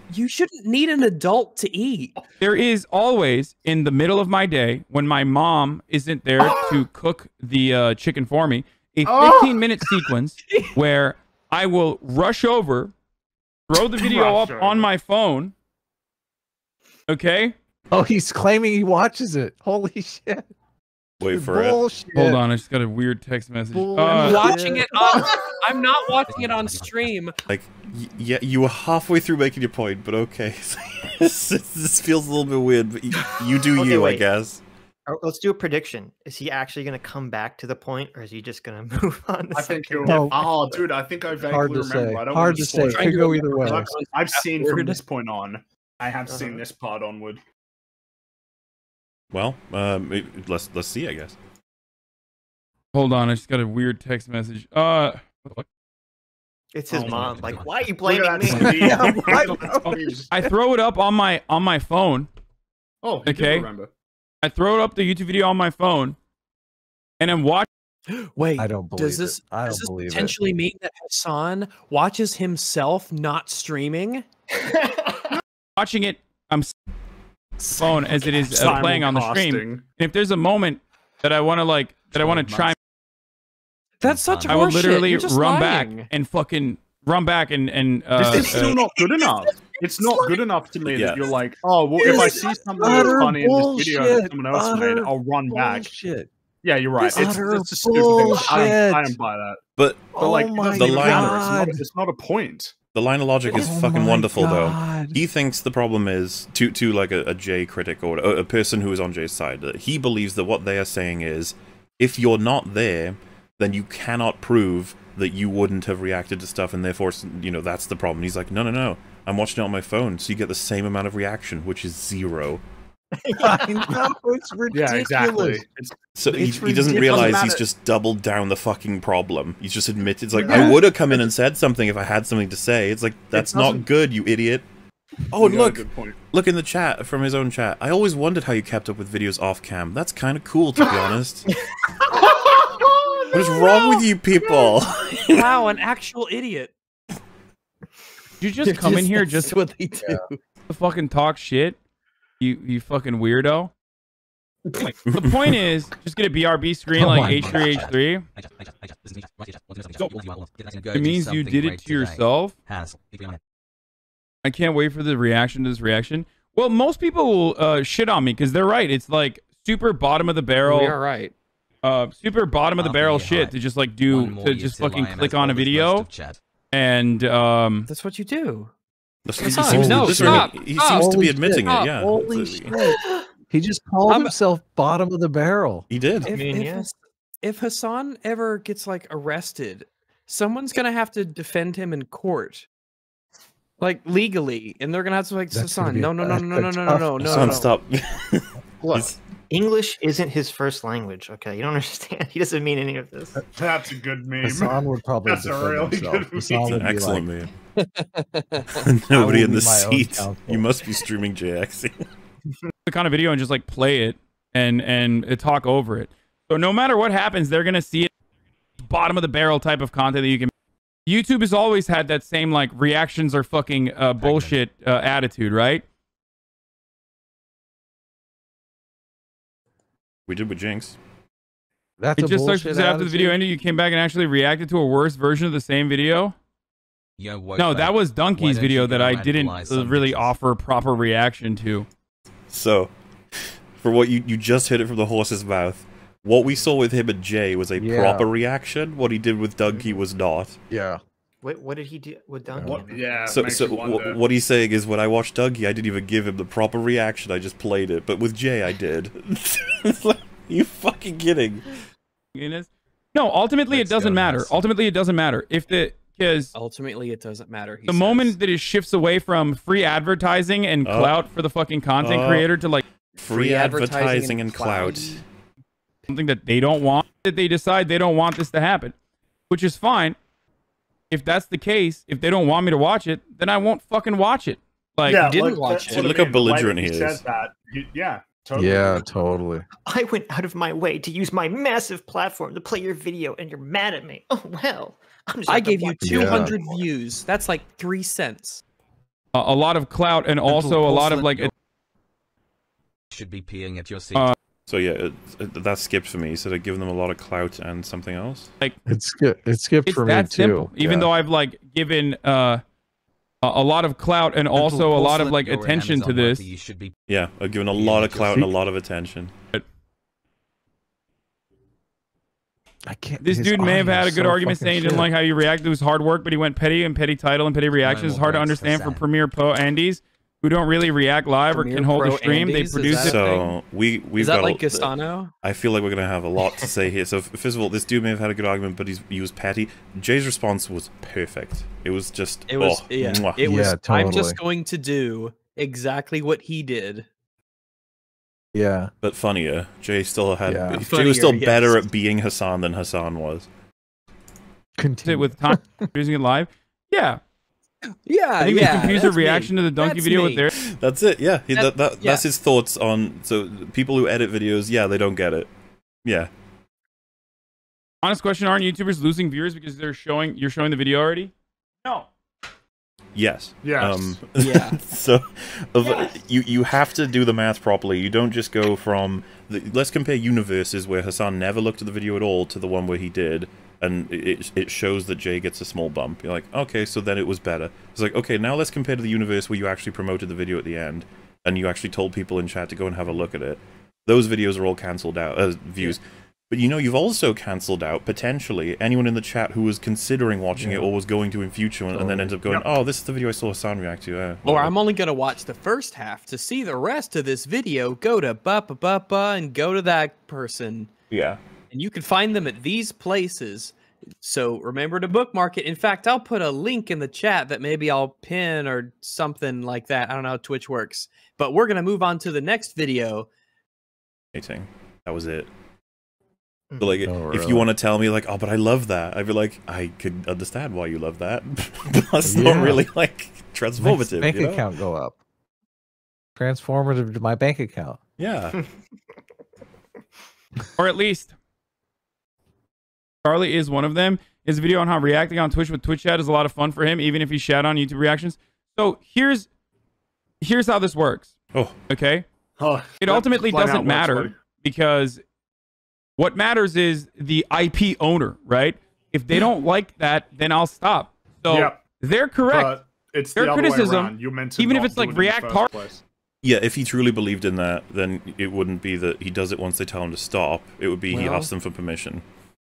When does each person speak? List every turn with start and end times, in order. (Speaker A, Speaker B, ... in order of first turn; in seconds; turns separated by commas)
Speaker A: 0.1-2.1, Speaker B: 2.4-12.9, Speaker C: 6.4-6.8, Speaker C: 9.1-9.6, Speaker B: 13.7-15.5, Speaker C: 13.9-14.9, Speaker B: 17.1-17.5, Speaker D: 17.9-20.4, Speaker E: 21.2-21.8, Speaker D: 21.3-22.4, Speaker B: 22.1-24.6, Speaker D: 23.7-25.3, Speaker A: 24.1-27.4, Speaker F: 26.2-27.1, Speaker E: 27.5-34.6, Speaker G: 33.8-34.2, Speaker G: 35.1-40.8, Speaker C: 39.5-47.4, Speaker D: 40.1-40.4, Speaker D: 41.4-43.9, Speaker A: 42.6-45.0, Speaker G: 46.3-46.6, Speaker E: 49.3-51.4, Speaker B: 52.9-55.6, Speaker G: 56.7-60.1, Speaker C: 56.9-57.4, Speaker F: 57.0-57.9, Speaker C: 58.0-60.3, Speaker D: 58.5-60.5, Speaker B: 60.3-62.3, Speaker C: 63.0-63.9, Speaker B: 63.3-63.7, Speaker B: 64.4-66.2, Speaker B: 67.2-67.7, Speaker A: 68.2-74.3, Speaker D: 68.6-70.4, Speaker B: 75.8-76.7, Speaker B: 77.8-82.8, Speaker C: 78.3-79.8, Speaker F: 82.2-82.8, Speaker A: 84.0-86.1, Speaker F: 84.0-84.7, Speaker B: 84.5-88.8, Speaker C: 88.2-95.9, Speaker A: 88.3-90.4, Speaker E: 90.9-91.3, Speaker A: 92.0-92.3, Speaker D: 92.0-96.3, Speaker C: 96.6-99.6, Speaker D: 97.0-99.1, Speaker E: 99.8-101.6, Speaker D: 100.1-101.8, Speaker C: 100.2-102.8, Speaker E: 102.9-122.6, Speaker D: 103.5-105.2, Speaker G: 123.2-123.8, Speaker D: 123.4-125.6, Speaker C: 124.7-127.6, Speaker E: 126.2-134.6, Speaker D: 126.3-127.5, Speaker C: 130.4-130.8, Speaker C: 133.3-133.9, Speaker E: 135.3-141.5, Speaker C: 135.4-136.2, Speaker C: 143.1-143.8, Speaker E: 143.3-145.5, Speaker A: 145.3-146.7, Speaker B: 148.4-149.6, Speaker A: 148.6-150.4, Speaker B: 150.7-151.8, Speaker B: 152.4-153.7, Speaker B: 155.1-158.2, Speaker D: 156.9-157.5, Speaker F: 157.0-163.4, Speaker B: 160.9-162.6, Speaker B: 164.4-171.0, Speaker A: 170.6-171.3, Speaker B: 171.8-176.1, Speaker F: 172.8-173.6, Speaker F: 174.1-176.4, Speaker B: 176.7-177.9, Speaker A: 177.9-178.7, Speaker E: 179.3-182.7, Speaker A: 179.4-183.0, Speaker D: 179.6-183.0, Speaker D: 183.5-185.8, Speaker A: 184.1-184.3, Speaker E: 185.9-186.3, Speaker A: 186.3-192.7, Speaker G: 186.3-186.9, Speaker A: 193.8-197.7, Speaker D: 195.5-197.6, Speaker E: 197.2-199.2, Speaker C: 198.8-199.1, Speaker G: 199.5-203.4, Speaker C: 203.6-206.7, Speaker D: 204.4-207.3, Speaker E: 206.6-207.5, Speaker A: 207.8-208.8, Speaker E: 208.8-211.9, Speaker D: 209.1-210.6, Speaker B: 212.9-218.1, Speaker B: 218.8-220.5, Speaker B: 221.1-225.8, Speaker F: 224.2-224.6, Speaker E: 230.3-231.0, Speaker D: 232.0-233.4, Speaker B: 232.2-236.3, Speaker F: 237.2-240.3, Speaker B: 237.6-241.9, Speaker E: 242.5-242.9, Speaker E: 243.8-250.6, Speaker D: 247.8-248.3, Speaker G: 249.7-250.0, Speaker D: 250.7-251.0, Speaker G: 251.4-253.9, Speaker D: 252.5-252.8, Speaker C: 252.6-254.2, Speaker E: 253.3-261.6, Speaker B: 262.4-266.5, Speaker E: 263.7-264.6, Speaker A: 266.5-268.4, Speaker B: 267.9-272.8, Speaker E: 270.8-271.1, Speaker E: 272.0-272.5, Speaker A: 273.2-275.2, Speaker E: 273.2-275.2, Speaker B: 276.1-278.9, Speaker B: 279.5-280.2, Speaker B: 281.1-285.3, Speaker C: 285.1-289.0, Speaker A: 285.1-286.1, Speaker E: 285.9-287.2, Speaker D: 288.6-289.6, Speaker G: 289.9-296.9, Speaker A: 295.5-298.6, Speaker D: 296.0-296.6, Speaker B: 299.3-301.5, Speaker F: 300.5-301.5, Speaker F: 303.1-304.3, Speaker E: 304.7-308.5, Speaker D: 308.9-311.1, Speaker B: 309.9-312.6, Speaker B: 313.4-316.5, Speaker F: 314.5-316.9, Speaker E: 317.1-319.3, Speaker F: 317.8-318.5, Speaker D: 322.9-325.1, Speaker B: 323.2-333.2, Speaker F: 327.8-329.1, Speaker A: 331.5-333.4, Speaker E: 333.0-334.9, Speaker A: 334.2-335.3, Speaker E: 335.4-343.4, Speaker A: 342.5-347.1, Speaker D: 343.4-344.4, Speaker D: 348.5-348.9, Speaker E: 349.0-353.5, Speaker D: 350.5-350.8, Speaker A: 350.9-351.8, Speaker D: 354.8-355.9, Speaker B: 355.0-357.2, Speaker A: 358.1-360.5, Speaker B: 358.4-360.5, Speaker E: 360.6-365.5, Speaker A: 361.6-362.2, Speaker E: 366.1-366.3, Speaker B: 368.0-371.3, Speaker E: 373.1-404.7, Speaker C: 373.6-374.2, Speaker A: 374.4-374.8, Speaker D: 400.6-400.9, Speaker D: 401.9-402.3, Speaker A: 404.4-410.9, Speaker E: 411.1-411.4, Speaker A: 411.7-423.3, Speaker E: 424.3-425.5, Speaker G: 426.7-427.0, Speaker E: 426.8-434.6, Speaker D: 427.1-427.7, Speaker D: 432.2-432.9, Speaker D: 433.8-435.2, Speaker D: 436.4-438.0, Speaker E: 438.2-438.6, Speaker B: 440.8-441.3, Speaker B: 443.2-449.5, Speaker B: 450.4-451.3, Speaker B: 451.9-452.2, Speaker C: 452.6-454.3, Speaker B: 453.0-455.2, Speaker B: 456.2-462.8, Speaker C: 461.5-461.8, Speaker C: 462.5-466.0, Speaker B: 463.4-465.7, Speaker E: 466.4-472.2, Speaker A: 471.1-471.5